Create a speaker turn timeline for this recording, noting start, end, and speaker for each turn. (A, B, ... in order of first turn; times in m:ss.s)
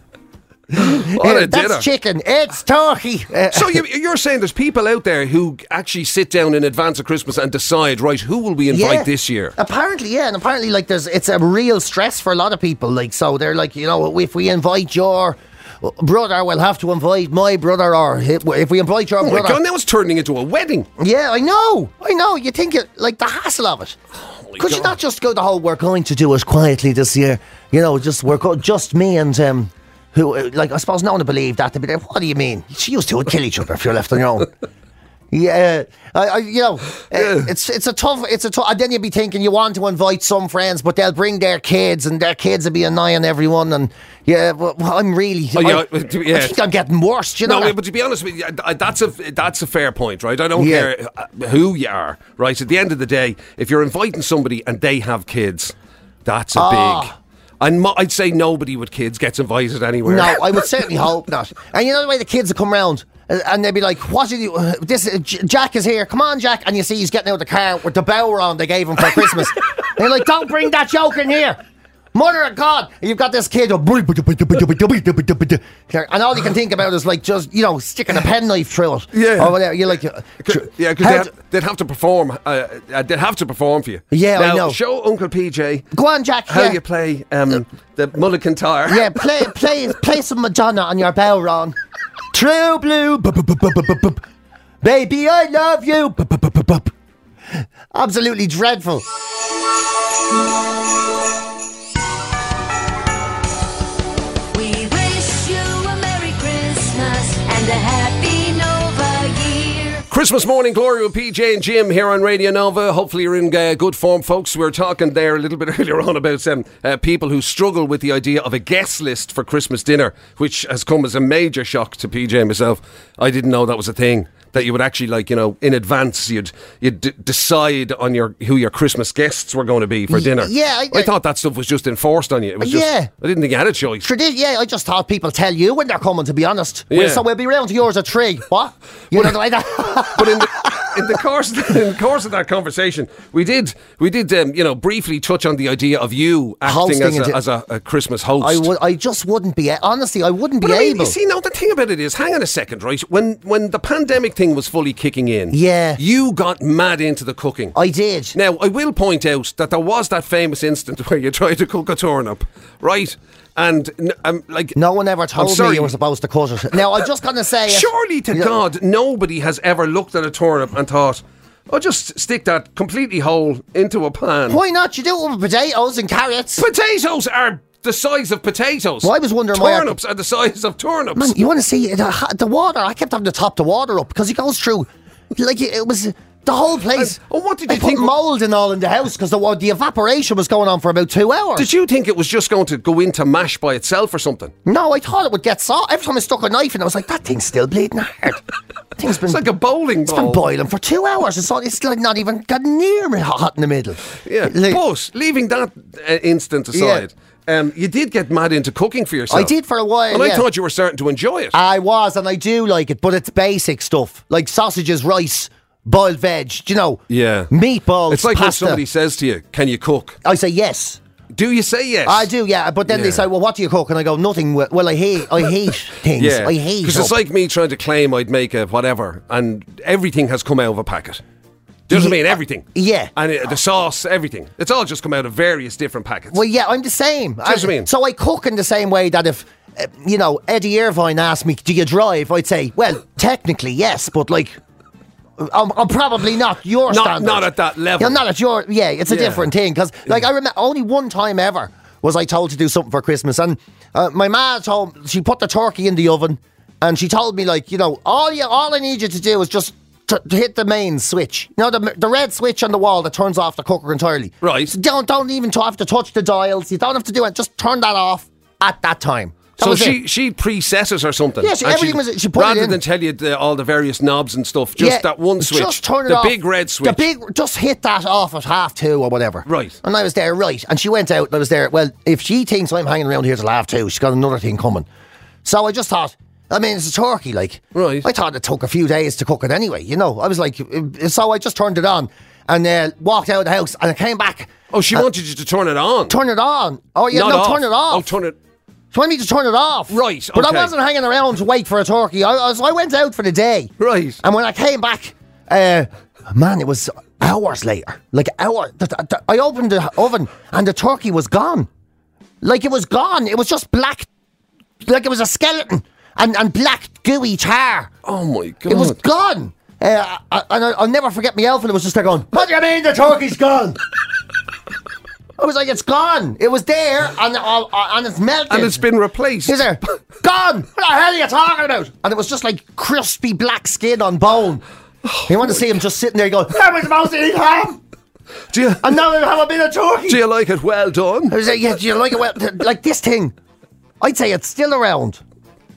0:00.7-0:03.8 A
0:00.8-0:01.9 B
0:03.5-0:09.5 B
0:08.7-0:19.6 A
0:19.2-0:20.9 B
0:21.0-0:24.0 A
0:24.2-0:24.9 B
0:24.6-0:34.5 A
0:35.3-0:47.8 A
0:37.1-0:37.5 B
0:45.5-0:46.6 B
0:47.4-0:55.7 B
0:50.5-0:50.9 A
0:56.2-1:00.6 B
0:56.5-0:57.1 A
1:00.0-1:11.6 A
1:12.1-1:21.3 A
1:19.1-1:19.6 B
1:20.4-1:25.9 B
1:24.1-1:24.8 A
1:25.9-1:26.8 A
1:26.5-1:29.2 B
1:28.9-1:31.8 A
1:32.3-1:34.2 A
1:34.8-1:36.9 A
1:37.9-1:39.0 A
1:44.5-1:50.0 C
1:50.1-2:14.0 B
2:10.1-2:11.1 A
2:12.6-2:13.1 A
2:14.0-2:21.0 A
2:16.9-2:17.2 B
2:20.1-2:28.7 B
2:26.6-2:27.4 A
2:28.4-2:31.2 A
2:30.6-2:37.8 B
2:35.5-2:36.0 A
2:37.7-2:38.4 A
2:38.3-2:44.8 B
2:44.8-2:48.6 A
2:45.3-2:45.9 B
2:47.6-2:54.6 B
2:54.5-2:56.7 A
2:56.6-3:01.3 B
2:59.0-3:00.0 A
3:01.1-3:07.2 A
3:06.9-3:08.2 B
3:07.7-3:11.7 A
3:11.6-3:14.5 B
3:14.6-3:18.4 A
3:19.0-3:19.4 A
3:19.1-3:20.4 B
3:20.0-3:24.8 A
3:24.2-3:29.5 B
3:26.7-3:27.1 A
3:29.3-3:30.4 A
3:30.1-3:31.6 B
3:31.5-3:38.8 A
3:37.1-3:37.5 B
3:38.1-3:40.2 B
3:40.2-3:41.0 A
3:41.3-3:42.3 B
3:42.0-3:47.1 A
3:42.9-3:43.2 B
3:46.2-3:51.2 B
3:51.9-3:56.4 B
3:51.9-3:53.1 A
3:56.3-4:04.6 A
3:57.4-3:57.9 B
4:05.4-4:30.0 A
4:06.9-4:08.2 B
4:09.1-4:09.5 B
4:24.4-4:24.7 B
4:29.6-4:37.0 B
4:31.4-4:32.8 A
4:34.8-4:44.9 A
4:39.4-4:39.8 B
4:45.4-4:55.0 A
4:47.7-4:48.0 B
4:54.7-4:56.2 B
4:56.1-4:58.1 A
4:57.1-4:58.4 B
4:58.9-5:11.7 A
4:59.9-5:00.7 B
5:03.8-5:04.2 B
5:12.4-5:14.1 A
5:14.8-5:17.9 A
5:18.0-5:19.0 B
5:18.7-5:23.8 A
5:25.4-5:28.8 A
5:28.5-5:29.8 B
5:29.4-5:34.6 A
5:35.0-5:35.3 B
5:35.2-5:37.8 A
5:38.5-5:39.0 B
5:38.8-5:40.2 A
5:40.1-5:41.4 B
5:41.3-5:43.3 A
5:44.0-5:45.2 A